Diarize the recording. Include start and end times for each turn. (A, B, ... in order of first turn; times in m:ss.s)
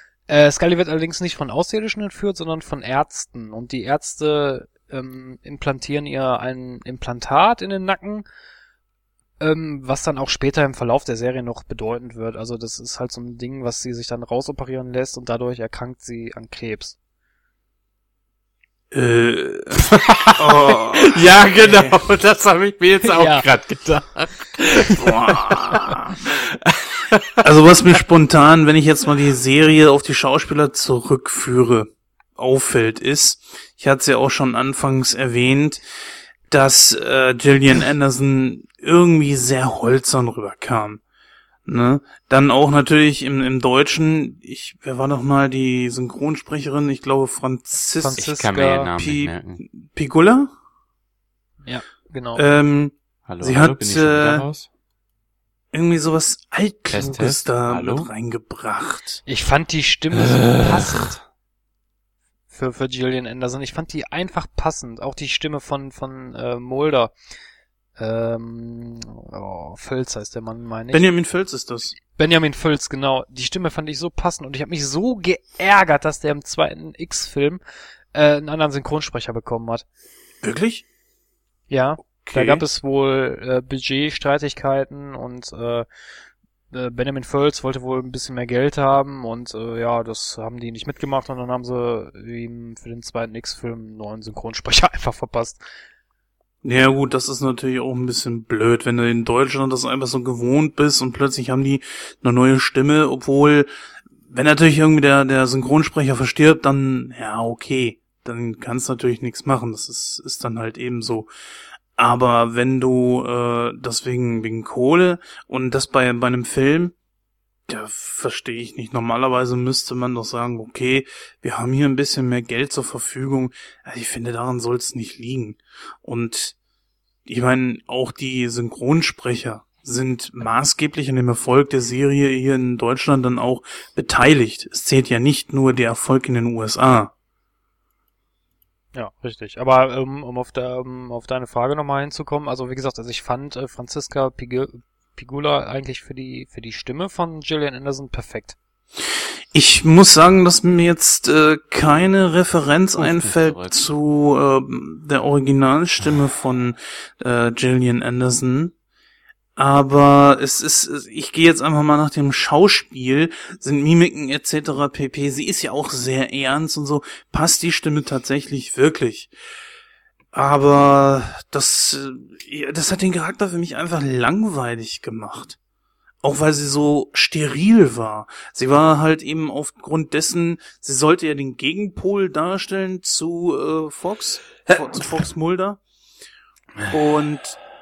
0:00.3-0:08.2 A
0:09.4-0:17.0 A
0:18.9-0:22.0 B
0:19.8-0:27.4 C
0:23.0-0:23.5 A
0:25.0-0:26.2 B
0:27.4-0:35.8 B
0:36.5-0:41.0 B
0:41.6-0:48.2 B
0:48.0-0:48.9 A
0:48.2-0:49.6 C
0:49.0-0:50.5 B
0:51.6-0:52.4 A
0:52.4-0:54.4 B
0:53.3-0:54.7 C
0:55.7-0:59.2 B
0:56.9-0:58.1 C
0:59.3-1:01.2 A
1:00.2-1:01.1 C
1:02.5-1:07.1 A
1:08.0-1:11.0 A
1:10.9-1:12.0 B
1:12.1-1:17.6 A
1:18.1-1:19.8 A
1:20.4-1:20.8 B
1:21.7-1:25.9 A
1:22.2-1:22.6 B
1:26.7-1:35.6 A
1:36.6-1:43.7 B
1:44.3-1:51.3 B
1:52.0-1:56.9 B
1:57.7-2:06.5 B
2:07.2-2:17.1 B
2:18.9-2:28.6 A
2:29.5-2:38.7 B
2:33.0-2:33.8 C
2:39.6-2:49.3 B
2:50.3-2:55.6 B
2:56.2-3:05.8 B
3:06.8-3:07.0 C
3:06.9-3:07.6 B